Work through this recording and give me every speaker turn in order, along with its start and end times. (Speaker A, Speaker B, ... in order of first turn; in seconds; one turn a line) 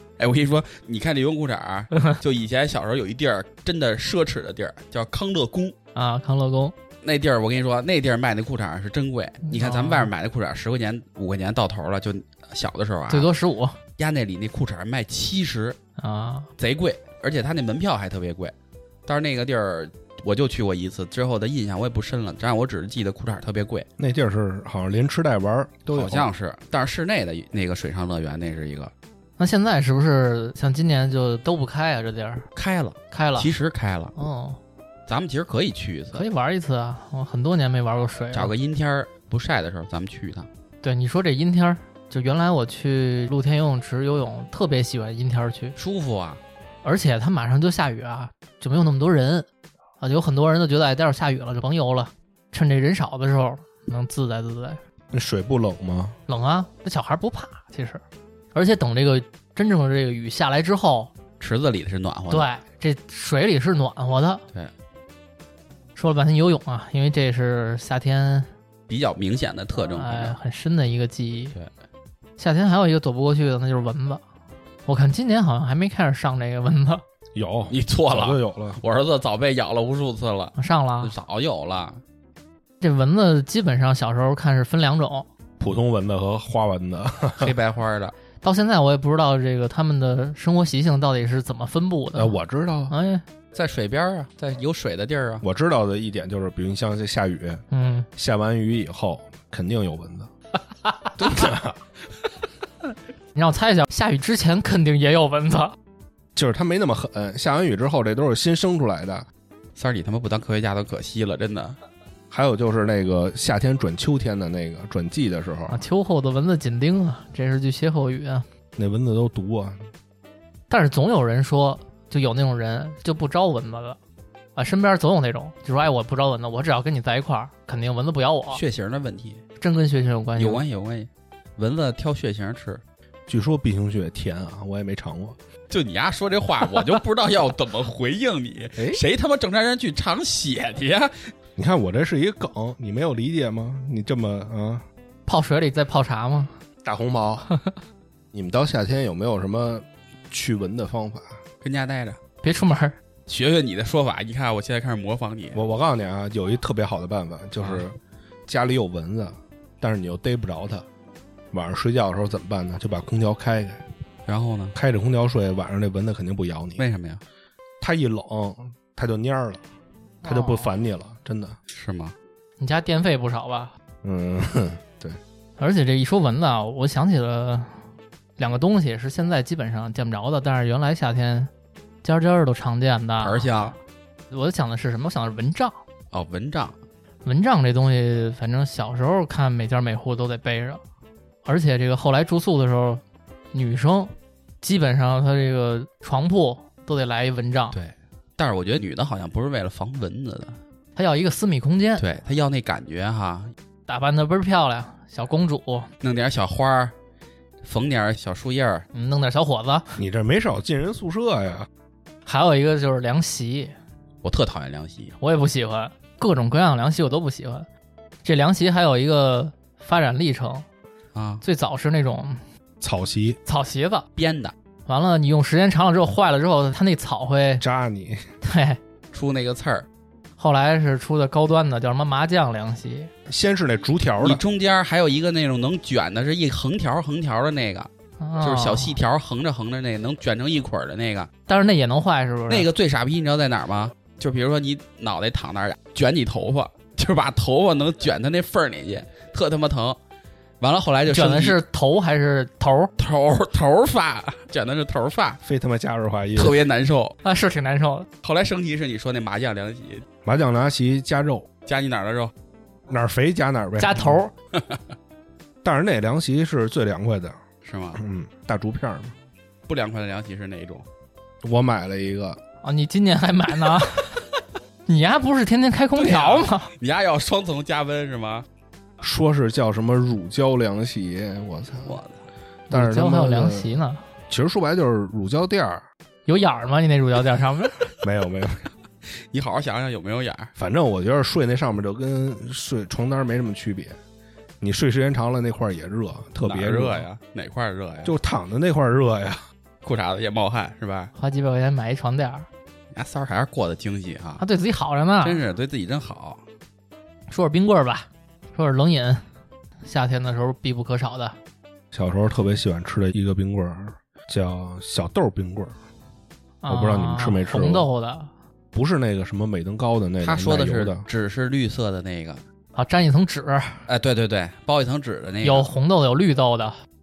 Speaker A: 0.2-5.7
Speaker B: 5.9-6.7
Speaker A: 7.0-13.3
Speaker B: 9.5-10.1
Speaker B: 13.1-13.8
Speaker A: 14.0-15.8
Speaker B: 16.0-16.5
Speaker A: 16.6-18.5
Speaker A: 19.1-23.9
Speaker C: 24.0-26.3
Speaker A: 25.9-28.9
Speaker B: 29.4-32.5
Speaker A: 32.5-34.1
Speaker B: 33.1-33.5
Speaker B: 34.1-34.6
Speaker A: 35.1-36.2
Speaker B: 36.1-38.5
Speaker A: 38.3-40.5
Speaker B: 40.8-45.8
Speaker A: 45.8-46.4
Speaker B: 46.8-49.5
Speaker B: 50.0-54.8
Speaker C: 55.1-56.2
Speaker B: 56.3-58.0
Speaker B: 58.5-61.1
Speaker A: 61.4-62.5
Speaker B: 62.3-64.4
Speaker B: 66.0-68.5
Speaker A: 68.9-70.3
Speaker B: 69.9-71.5
Speaker B: 72.4-74.2
Speaker B: 74.8-77.0
Speaker C: 77.3-78.8
Speaker A: 77.7-82.0
Speaker B: 80.6-81.1
Speaker B: 82.8-85.3
Speaker C: 85.6-87.5
Speaker A: 87.4-88.1
Speaker B: 88.4-92.4
Speaker C: 92.1-92.9
Speaker B: 92.9-93.2
Speaker A: 93.5-95.4
Speaker C: 95.4-97.6
Speaker B: 97.7-98.1
Speaker C: 98.2-100.3
Speaker C: 101.2-101.8
Speaker B: 103.3-105.8
Speaker C: 106.3-109.3
Speaker A: 109.8-111.8
Speaker C: 112.3-115.8
Speaker B: 115.7-118.5
Speaker C: 118.8-119.8
Speaker B: 120.7-124.0
Speaker B: 124.5-128.6
Speaker A: 128.5-129.4
Speaker B: 129.6-130.6
Speaker A: 130.4-132.8
Speaker C: 133.3-135.4
Speaker A: 135.7-141.3
Speaker C: 138.8-139.0
Speaker C: 141.6-144.8
Speaker B: 145.3-146.5
Speaker C: 146.8-147.5
Speaker C: 148.3-151.4
Speaker A: 151.6-152.2
Speaker B: 152.4-152.9
Speaker A: 153.3-155.6
Speaker C: 155.5-157.9
Speaker C: 158.5-160.8
Speaker C: 161.5-163.8
Speaker A: 164.3-164.8
Speaker C: 164.7-166.8
Speaker A: 166.8-167.2
Speaker C: 167.8-169.6
Speaker B: 170.2-170.7
Speaker C: 170.2-171.6
Speaker A: 171.7-172.1
Speaker B: 172.6-173.7
Speaker C: 174.0-175.2
Speaker B: 175.6-177.8
Speaker B: 178.4-181.5
Speaker B: 182.0-183.7
Speaker A: 183.2-183.8
Speaker B: 184.3-185.8
Speaker A: 186.1-186.8
Speaker B: 187.2-190.8
Speaker B: 191.4-193.0
Speaker B: 193.5-197.8
Speaker A: 197.7-200.6
Speaker B: 200.9-202.0
Speaker A: 202.0-203.5
Speaker B: 203.9-205.9
Speaker A: 206.0-206.9
Speaker A: 207.6-208.8
Speaker B: 208.9-210.0
Speaker C: 209.9-211.7
Speaker B: 212.2-213.7
Speaker A: 214.2-215.2
Speaker B: 215.2-217.7
Speaker B: 218.2-220.7
Speaker A: 221.1-221.4
Speaker B: 221.4-222.4
Speaker C: 222.8-223.4
Speaker B: 223.4-224.1
Speaker A: 224.2-224.5
Speaker B: 224.8-227.6
Speaker C: 227.6-228.2
Speaker B: 228.4-228.8
Speaker A: 229.1-229.9
Speaker B: 230.4-233.1
Speaker C: 233.3-234.4
Speaker A: 234.2-237.9
Speaker B: 238.2-239.0
Speaker A: 238.4-241.3
Speaker B: 241.5-242.7
Speaker A: 242.5-250.0
Speaker A: 250.6-251.6
Speaker B: 251.1-252.9
Speaker A: 253.0-255.4
Speaker C: 255.4-256.6
Speaker A: 256.4-257.1
Speaker B: 257.2-258.1
Speaker A: 258.2-260.0
Speaker C: 260.2-261.5
Speaker A: 261.6-262.3
Speaker C: 262.9-264.2
Speaker B: 263.8-264.3
Speaker A: 264.5-264.8
Speaker C: 265.6-267.4
Speaker A: 267.6-268.0
Speaker C: 267.9-269.1
Speaker A: 269.7-270.9
Speaker C: 271.4-272.4
Speaker B: 272.6-274.2
Speaker B: 274.9-276.7
Speaker A: 275.9-278.4
Speaker C: 279.0-282.0
Speaker A: 281.8-282.2
Speaker C: 282.7-283.7
Speaker B: 282.7-284.0
Speaker C: 284.3-285.8
Speaker B: 286.3-287.9
Speaker C: 288.0-288.7
Speaker A: 289.3-290.5
Speaker C: 290.6-293.9
Speaker C: 294.6-297.1
Speaker A: 296.4-298.1
Speaker C: 298.0-299.4
Speaker A: 299.8-301.1
Speaker B: 301.1-302.5
Speaker A: 302.9-304.4
Speaker B: 304.4-305.4
Speaker A: 305.2-306.4
Speaker B: 307.3-309.2
Speaker B: 309.8-311.4
Speaker C: 311.9-315.7
Speaker B: 316.6-318.3
Speaker C: 316.7-317.9
Speaker C: 318.7-321.0
Speaker A: 320.2-322.4
Speaker B: 322.7-323.9
Speaker A: 323.9-325.7
Speaker B: 325.4-326.8